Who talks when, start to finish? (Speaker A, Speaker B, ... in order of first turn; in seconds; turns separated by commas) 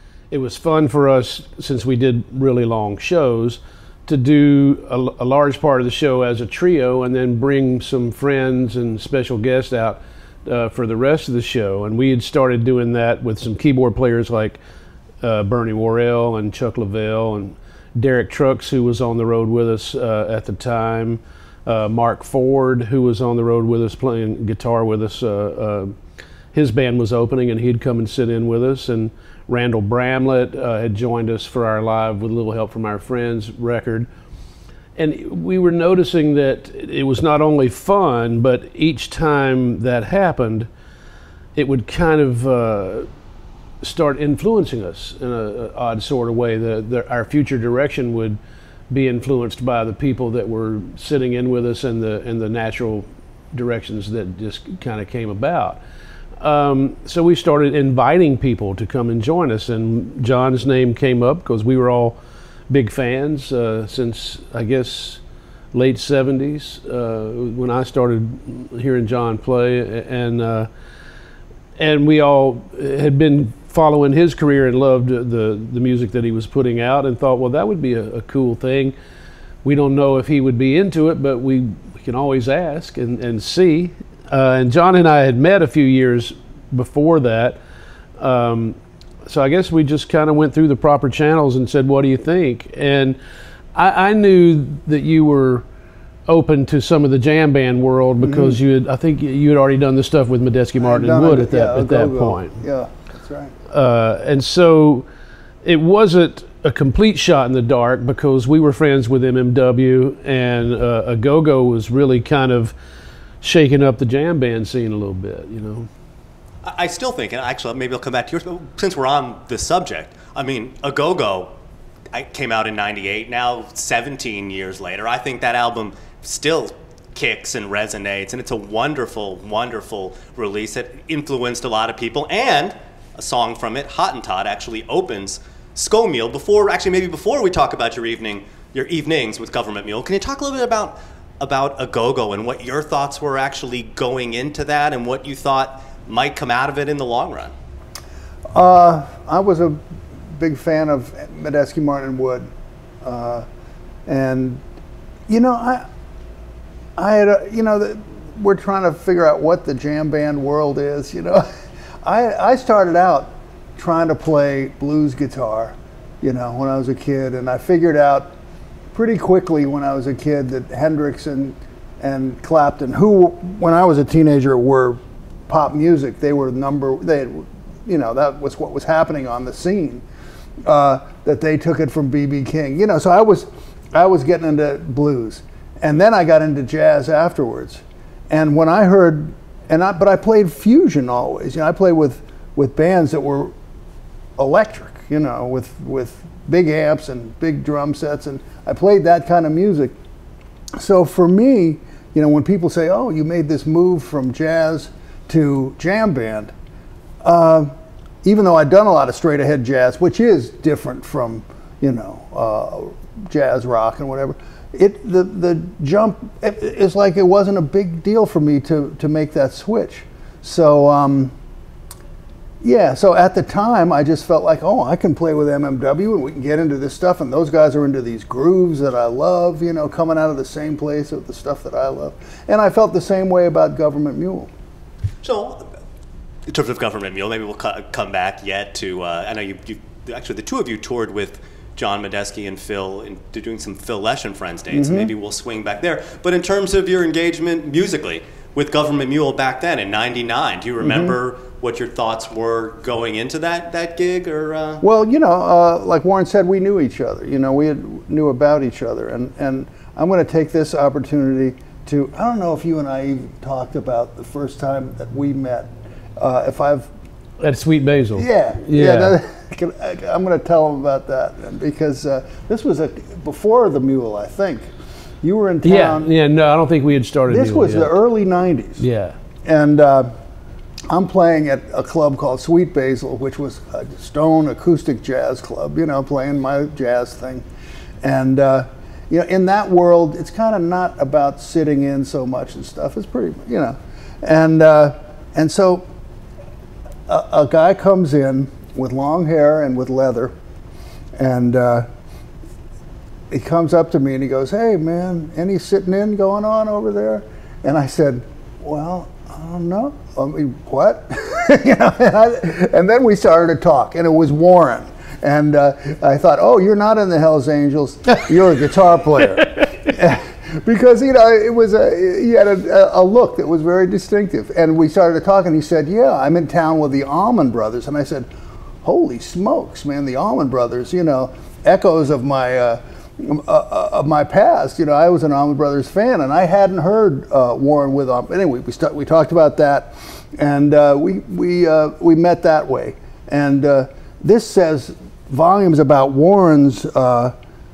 Speaker A: 0.3-14.6, Speaker A: 15.2-25.9, Speaker A: 26.5-34.1, Speaker A: 35.0-40.7, Speaker A: 41.5-43.1, Speaker A: 43.8-48.4, Speaker A: 48.9-55.8, Speaker A: 56.4-62.2, Speaker A: 62.7-65.2, Speaker A: 65.7-70.7, Speaker A: 71.8-79.0, Speaker A: 79.6-87.6, Speaker A: 88.2-93.2, Speaker A: 93.8-95.7, Speaker A: 96.3-102.5, Speaker B: 98.2-98.6, Speaker B: 100.8-103.5, Speaker A: 103.7-105.1, Speaker A: 105.6-112.7, Speaker A: 113.4-115.9, Speaker C: 116.6-121.5, Speaker C: 122.1-147.5, Speaker B: 148.5-149.8, Speaker B: 150.3-152.5, Speaker B: 153.0-153.4, Speaker B: 154.1-154.6, Speaker B: 155.3-155.8, Speaker B: 157.0-161.4, Speaker B: 162.0-168.3, Speaker B: 168.9-180.0, Speaker B: 180.6-193.5, Speaker B: 194.4-199.9, Speaker B: 200.8-206.5, Speaker B: 207.2-207.7, Speaker B: 208.2-221.3, Speaker B: 222.6-234.5, Speaker C: 235.2-235.7, Speaker C: 236.5-254.8, Speaker B: 244.7-245.1, Speaker B: 250.8-251.2, Speaker B: 254.8-266.9, Speaker A: 267.4-269.2, Speaker B: 268.1-274.7, Speaker B: 275.2-276.1, Speaker A: 275.6-278.0, Speaker B: 277.3-278.9, Speaker A: 278.8-279.2, Speaker B: 279.4-280.1, Speaker B: 280.9-287.4, Speaker B: 288.0-295.8, Speaker B: 297.1-300.3, Speaker B: 301.2-301.9, Speaker B: 303.3-328.3, Speaker B: 328.8-347.3